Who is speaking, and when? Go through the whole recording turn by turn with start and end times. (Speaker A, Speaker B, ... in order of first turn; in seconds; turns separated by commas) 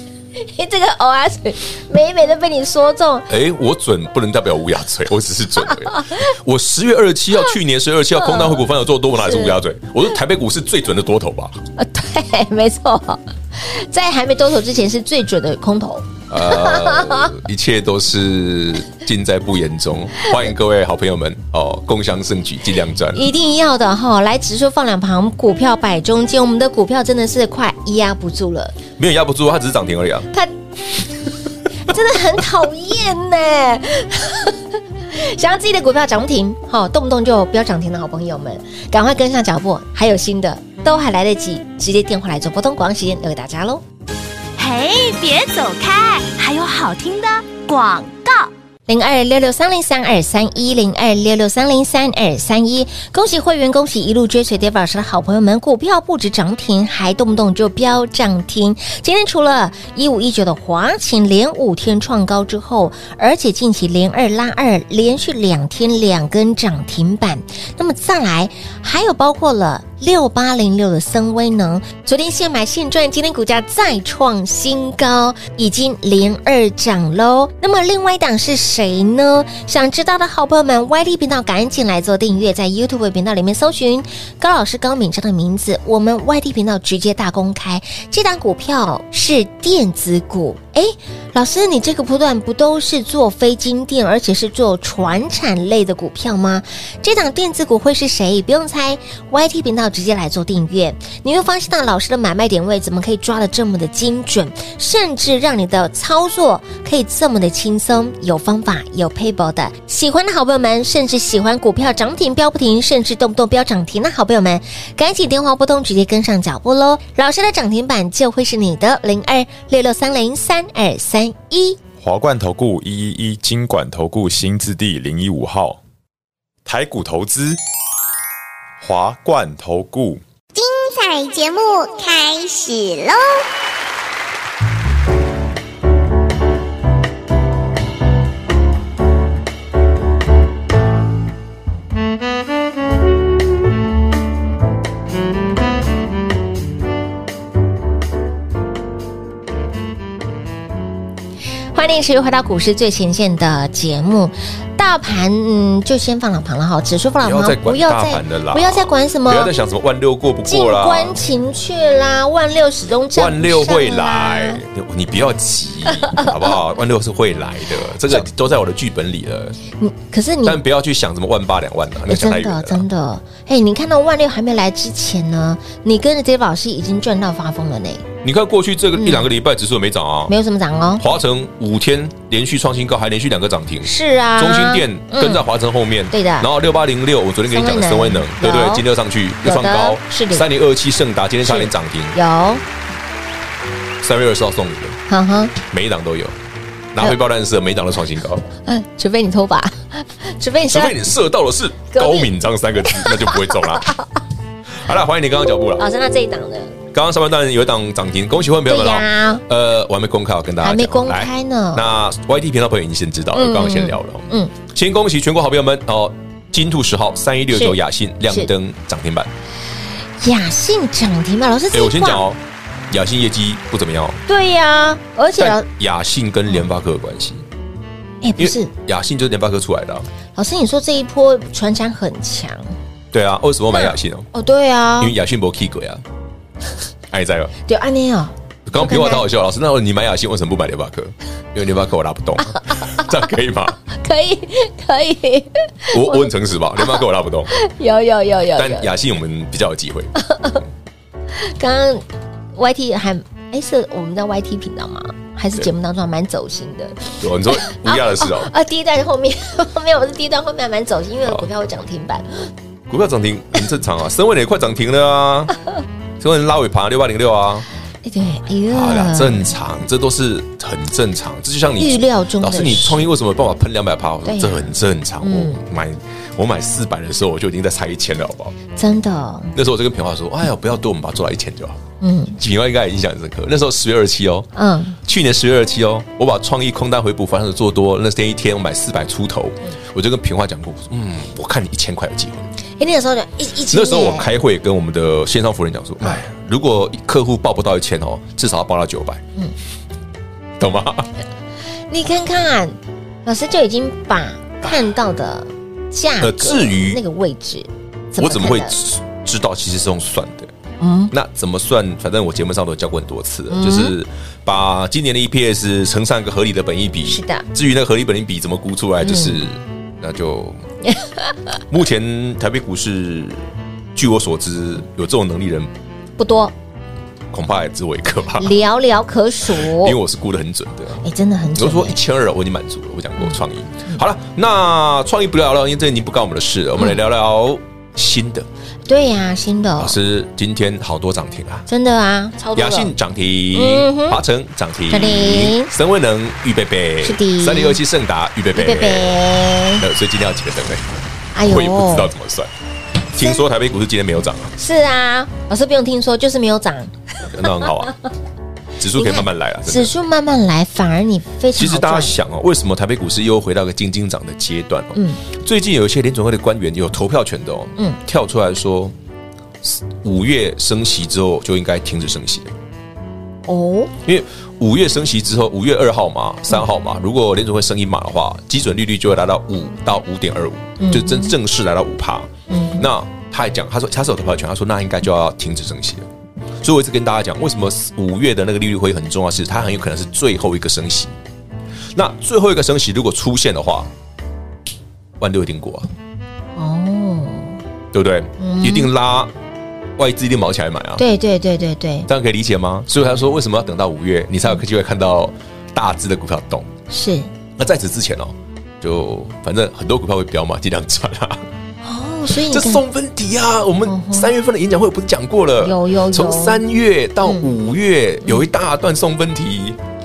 Speaker A: 0.3-3.3, Speaker B: 3.3-11.6, Speaker A: 5.7-6.2, Speaker A: 8.2-8.6, Speaker A: 9.1-9.6, Speaker A: 11.8-17.3, Speaker B: 16.3-23.2, Speaker A: 23.1-28.8, Speaker B: 29.0-30.3, Speaker A: 31.8-43.8, Speaker C: 44.6-48.5, Speaker A: 48.9-121.8, Speaker D: 122.0-125.8, Speaker D: 126.6-127.6, Speaker D: 128.8-130.2, Speaker E: 130.5-133.4, Speaker A: 151.7-159.5, Speaker B: 157.2-161.2, Speaker A: 160.4-164.6, Speaker B: 163.1-169.6, Speaker A: 169.8-170.6, Speaker B: 170.4-172.8, Speaker A: 172.1-178.1, Speaker B: 178.2-180.3, Speaker A: 179.0-179.3, Speaker A: 180.3-181.0, Speaker B: 181.0-192.2, Speaker A: 183.8-185.4, Speaker A: 186.1-186.5, Speaker A: 187.5-188.8, Speaker A: 189.4-190.4, Speaker A: 191.4-192.6, Speaker B: 194.0-195.0, Speaker A: 195.1-195.5, Speaker B: 195.6-196.3, Speaker B: 196.9-198.4, Speaker A: 198.7-201.0, Speaker B: 200.6-203.9, Speaker A: 201.9-202.3, Speaker A: 202.9-204.1, Speaker B: 204.8-205.8, Speaker A: 205.8-206.7, Speaker B: 206.9-219.3, Speaker A: 208.7-209.4, Speaker A: 210.6-211.8, Speaker A: 213.3-214.5, Speaker A: 217.5-217.8, Speaker A: 220.2-222.2, Speaker B: 221.7-224.2, Speaker A: 224.3-225.7, Speaker B: 225.4-227.4, Speaker A: 228.2-228.7, Speaker B: 228.4-230.1, Speaker A: 230.3-232.7, Speaker B: 233.1-234.3, Speaker A: 233.7-235.1, Speaker B: 235.0-236.0, Speaker B: 237.1-237.5, Speaker A: 237.7-239.3, Speaker B: 238.7-243.8, Speaker A: 242.6-243.1, Speaker A: 243.8-246.3, Speaker B: 245.9-247.5, Speaker A: 246.8-248.9, Speaker B: 248.5-250.1, Speaker A: 250.2-250.6, Speaker A: 251.3-262.5, Speaker B: 257.2-258.5, Speaker B: 262.9-265.5, Speaker B: 266.2-267.6, Speaker A: 268.0-269.5, Speaker B: 268.7-278.5, Speaker A: 271.8-273.1, Speaker A: 274.2-275.6, Speaker A: 278.7-279.5, Speaker B: 279.5-281.8, Speaker A: 282.0-282.4, Speaker B: 282.4-284.5, Speaker A: 284.6-285.0, Speaker B: 285.0-292.5, Speaker A: 292.8-294.3, Speaker B: 293.7-299.2, Speaker B: 300.6-301.1, Speaker A: 301.9-308.8, Speaker B: 306.2-307.0, Speaker B: 308.2-310.5, Speaker A: 310.8-311.1, Speaker B: 311.1-320.6, Speaker A: 313.5-313.9, Speaker A: 317.1-317.4, Speaker A: 319.0-319.4, Speaker A: 320.8-321.4, Speaker B: 321.7-325.7, Speaker A: 326.2-326.5, Speaker B: 327.3-328.5, Speaker A: 328.4-330.0, Speaker B: 329.6-338.5, Speaker A: 331.0-332.0, Speaker A: 338.9-339.9, Speaker B: 339.8-341.6, Speaker A: 341.7-342.9, Speaker B: 342.5-349.2, Speaker A: 343.5-344.2, Speaker A: 344.9-345.7, Speaker A: 347.0-347.8, Speaker A: 348.5-349.8, Speaker B: 349.8-350.9, Speaker A: 351.3-352.1, Speaker B: 351.4-352.5, Speaker B: 353.1-354.5, Speaker A: 354.6-356.9, Speaker B: 357.2-357.9, Speaker B: 358.8-359.9, Speaker A: 358.9-362.2, Speaker B: 361.5-368.9, Speaker A: 364.9-365.2, Speaker B: 369.6-372.5, Speaker A: 373.4-373.9, Speaker B: 374.0-386.1, Speaker A: 380.8-381.3, Speaker A: 382.5-382.9, Speaker B: 386.6-391.1, Speaker B: 391.9-393.9, Speaker B: 395.2-395.9, Speaker A: 396.6-397.6, Speaker B: 397.9-399.3, Speaker A: 398.4-398.9, Speaker B: 400.0-401.0, Speaker A: 401.0-402.1, Speaker B: 402.1-406.7, Speaker A: 406.9-407.3, Speaker B: 407.6-411.4, Speaker A: 411.8-412.8, Speaker B: 412.3-419.8, Speaker A: 413.9-414.3, Speaker A: 415.6-416.6, Speaker A: 417.2-417.5